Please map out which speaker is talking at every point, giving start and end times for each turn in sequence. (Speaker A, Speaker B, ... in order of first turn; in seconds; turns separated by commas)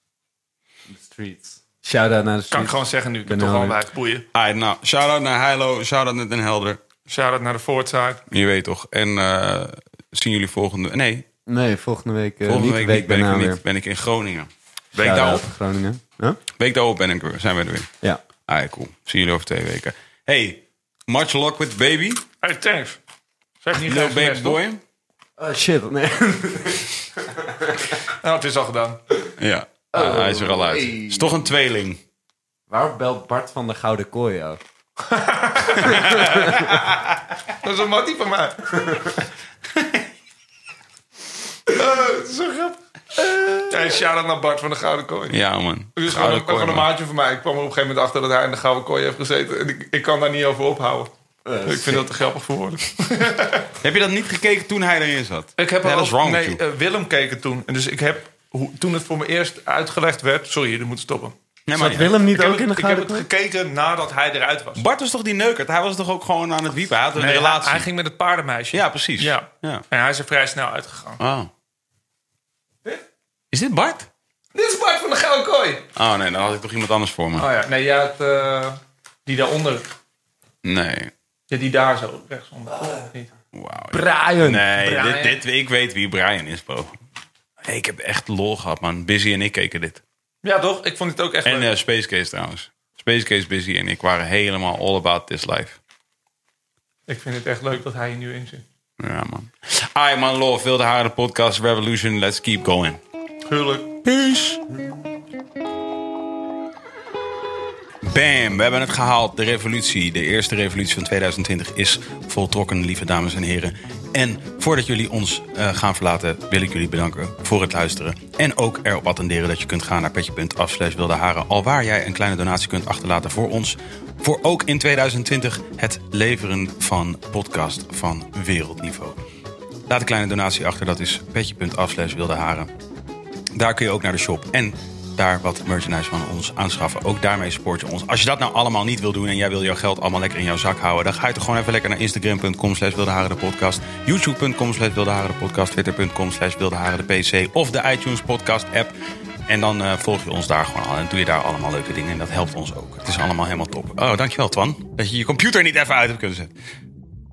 Speaker A: 0.9-3.8, Speaker B: 2.5-4.2, Speaker C: 4.3-6.8, Speaker B: 7.1-8.2, Speaker C: 8.3-11.2, Speaker A: 11.4-13.6, Speaker C: 12.4-15.5, Speaker A: 14.9-16.4, Speaker C: 16.6-17.9, Speaker C: 18.5-22.2, Speaker B: 22.4-23.0, Speaker B: 23.6-24.6, Speaker C: 23.8-24.8, Speaker A: 25.4-28.0, Speaker B: 28.1-29.0, Speaker C: 29.4-32.0, Speaker A: 29.9-31.4, Speaker A: 32.7-34.6, Speaker B: 35.0-36.7, Speaker C: 35.7-37.2, Speaker A: 35.9-36.7, Speaker B: 37.6-39.2, Speaker B: 41.7-45.4, Speaker C: 45.3-46.9, Speaker B: 46.0-51.1, Speaker A: 51.5-52.0, Speaker B: 51.6-53.7, Speaker C: 53.8-56.6, Speaker B: 55.6-61.3, Speaker C: 61.7-62.1, Speaker A: 61.8-63.2, Speaker B: 62.2-64.8, Speaker C: 64.8-67.9, Speaker B: 67.1-71.2, Speaker C: 68.7-69.8, Speaker C: 71.2-71.5, Speaker C: 73.5-74.1, Speaker B: 74.5-75.8, Speaker C: 76.0-77.5, Speaker B: 77.4-79.8, Speaker C: 80.6-81.1, Speaker B: 81.5-83.3, Speaker C: 83.5-86.9, Speaker A: 83.9-84.6, Speaker B: 84.7-85.4, Speaker C: 87.6-90.0, Speaker B: 90.4-91.7, Speaker C: 91.4-95.8, Speaker B: 97.1-98.6, Speaker C: 99.0-103.0, Speaker B: 103.5-103.9, Speaker C: 104.0-104.6, Speaker C: 108.0-129.2, Speaker C: 129.9-132.7, Speaker C: 133.5-148.9, Speaker C: 149.5-156.5